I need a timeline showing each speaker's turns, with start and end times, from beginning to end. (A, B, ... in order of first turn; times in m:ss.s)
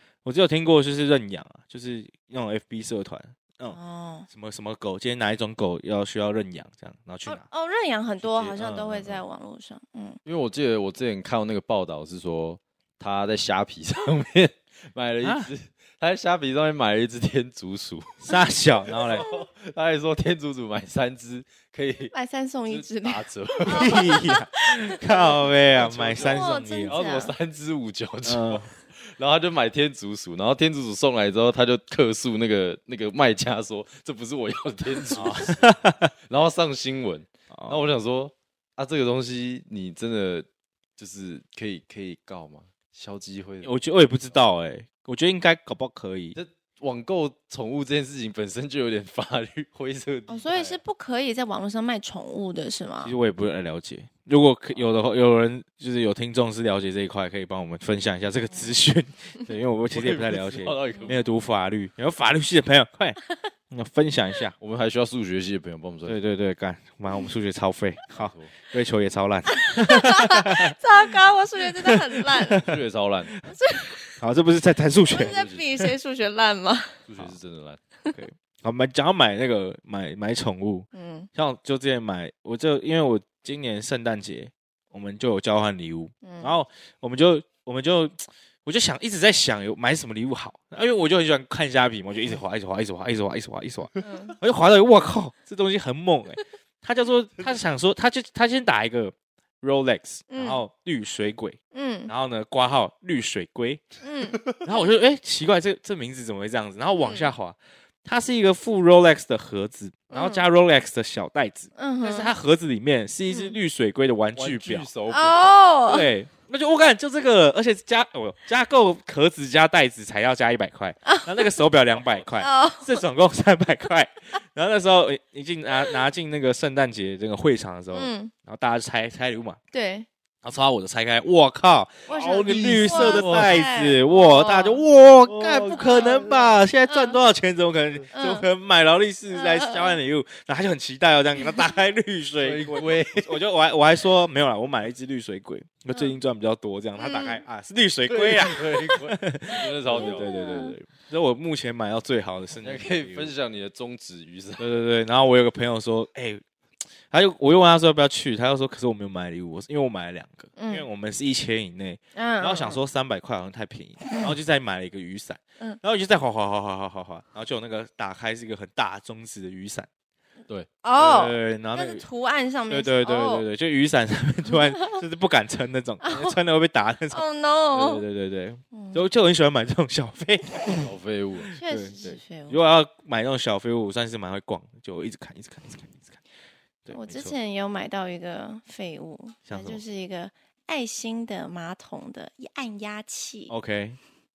0:00.2-0:03.8 A
0:03.7-0:04.3 B
0:04.3-0:07.4 A
0:07.2-0:10.2 B
0:08.2-0:09.2 A
0:10.2-0:18.2 C
0:15.2-0:15.5 A
0:18.2-0:19.3 A
0:18.9-0:22.1 C
0:19.1-0:19.4 B
0:22.1-0:25.5 B
0:22.7-0:24.1 C
0:23.7-0:27.0 A
0:25.8-0:35.7 C
0:26.1-0:27.4 B
0:28.2-0:28.7 A
0:35.1-0:36.1 A
0:36.3-0:43.8 C
0:37.5-0:37.8 A
0:43.6-0:46.4 A
0:46.4-0:50.8 C
0:50.3-0:53.1 B
0:53.0-1:04.5 A
0:59.9-1:01.3 C
1:04.6-1:06.2 C
1:06.1-1:10.7 A
1:08.1-1:08.5 C
1:09.5-1:12.6 B
1:11.8-1:12.6 A
1:12.6-1:13.3 C
1:13.4-1:14.2 B
1:14.2-1:15.4 A
1:15.1-1:17.0 B
1:15.1-1:15.7 C
1:17.1-1:17.8 C
1:18.1-1:43.9 A
1:20.9-1:21.3 B
1:26.2-1:26.6 B
1:34.0-1:34.4 B
1:40.3-1:40.6 B
1:41.7-1:42.1 B
1:44.0-1:44.9 B
1:44.6-1:54.9 A
1:47.0-1:47.3 B
1:50.1-1:50.4 B
1:51.8-1:52.3 B
1:53.3-1:53.6 B
1:54.3-1:55.6 C
1:55.1-1:56.1 B
1:55.9-2:09.6 A
2:01.1-2:01.6 B
2:02.4-2:03.0 B
2:07.9-2:08.3 B
2:09.7-2:10.1 B
2:10.4-2:33.3 A
2:12.1-2:14.9 B
2:12.4-2:13.6 C
2:15.3-2:16.5 C
2:15.7-2:17.2 B
2:18.1-2:18.4 B
2:19.3-2:20.0 B
2:22.4-2:23.4 C
2:27.0-2:27.4 B
2:28.1-2:30.3 C
2:30.0-2:30.7 B
2:32.6-2:34.6 C
2:34.6-2:36.4 A
2:37.1-2:49.9 A
2:40.6-2:40.9 B
2:42.2-2:42.8 B
2:50.8-2:53.5 B
2:51.0-2:52.0 A
2:52.7-3:00.9 A
2:54.5-2:55.0 B
2:56.0-2:56.4 B
2:57.1-2:58.0 B
2:58.7-2:59.0 B
3:00.8-3:01.5 C
3:01.5-3:06.2 A
3:01.6-3:02.6 B
3:06.8-3:07.4 A
3:06.9-3:13.5 B
3:09.5-3:09.8 A
3:13.5-3:14.0 A